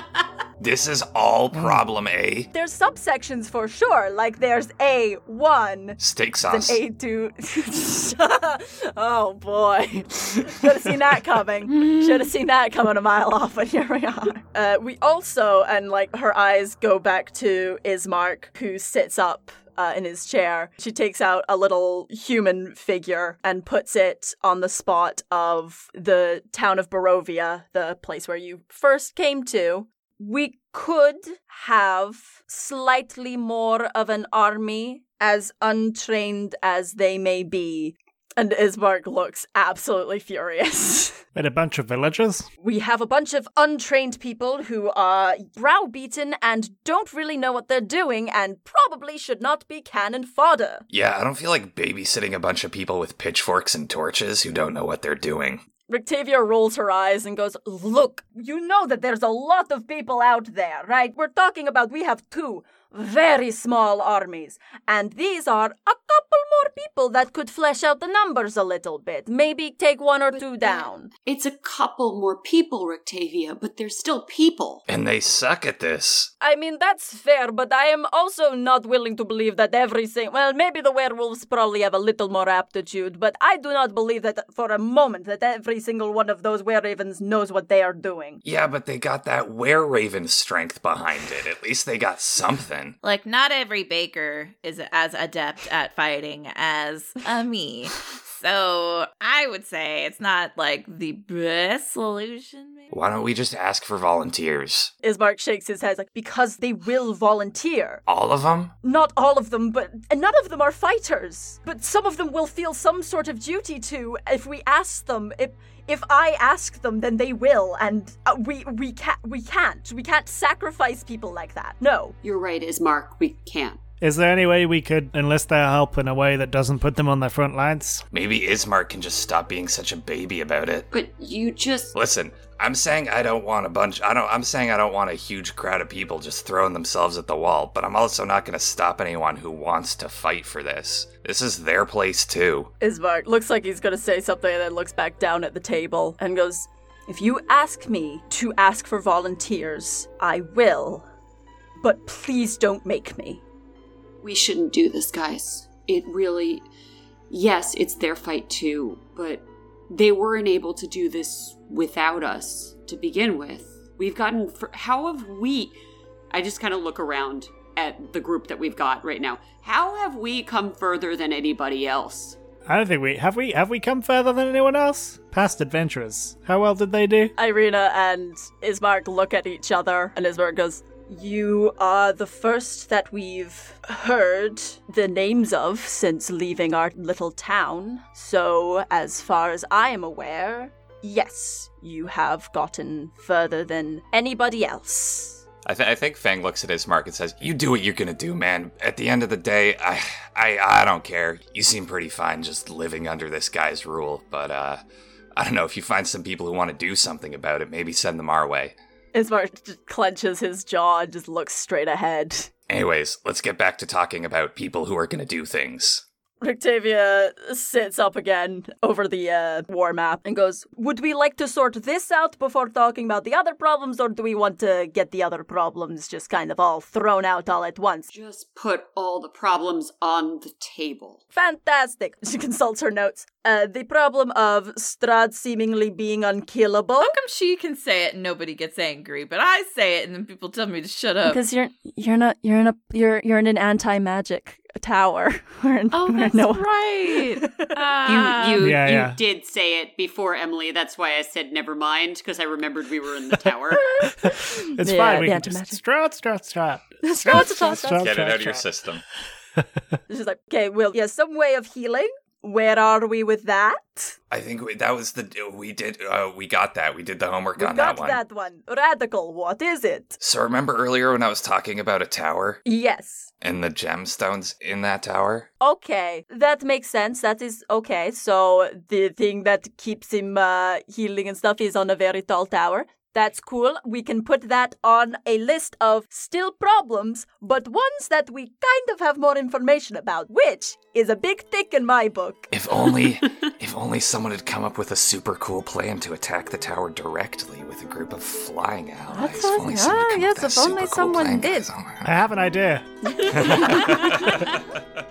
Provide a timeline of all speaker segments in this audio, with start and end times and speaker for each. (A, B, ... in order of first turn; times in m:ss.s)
0:00.6-0:02.5 A
0:02.5-0:41.2 B
0:06.0-0:06.8 A
0:41.3-0:42.5 C
0:42.6-0:50.8 B
0:50.9-0:55.6 A
0:55.9-1:11.1 B
1:11.3-1:14.8 D
1:14.9-1:16.3 A
1:16.4-1:28.4 B
1:28.4-1:33.0 A
1:33.0-1:42.9 E
1:42.9-1:44.9 A
1:45.0-1:48.0 B
1:48.1-1:48.7 A
1:48.8-2:02.2 B
2:02.2-2:03.8 D
2:04.0-2:08.0 C
2:08.1-2:10.9 A
2:10.9-2:11.9 D
2:11.9-2:22.7 A
2:22.8-2:31.0 B
2:31.8-2:33.4 B
2:34.2-2:36.6 D
2:37.3-2:45.8 D
2:46.3-2:52.4 D
2:52.7-2:57.3 C
2:57.4-3:15.4 B
3:15.6-3:24.8 A
3:25.4-3:28.8 A
3:29.1-3:32.5 B
3:32.7-3:36.0 A
3:36.4-3:48.1 B
3:48.1-3:51.2 D
3:51.3-3:57.1 B
3:57.0-4:01.4 E
4:01.2-4:07.8 B
4:05.9-4:08.7 E
4:08.0-4:14.0 D
4:08.6-4:09.2 C
4:14.0-4:15.8 B
4:14.2-4:18.6 C
4:17.0-4:18.1 B
4:18.0-4:19.0 A
4:20.1-4:24.2 B
4:24.3-4:28.2 A
4:27.6-4:30.2 B
4:30.2-4:32.6 A
4:32.6-4:33.3 B
4:33.4-4:35.5 A
4:35.6-4:52.5 B
4:52.5-5:02.1 A
4:59.1-5:01.7 B
5:02.0-5:04.4 C
5:03.4-5:03.6 B
5:03.4-5:03.7 A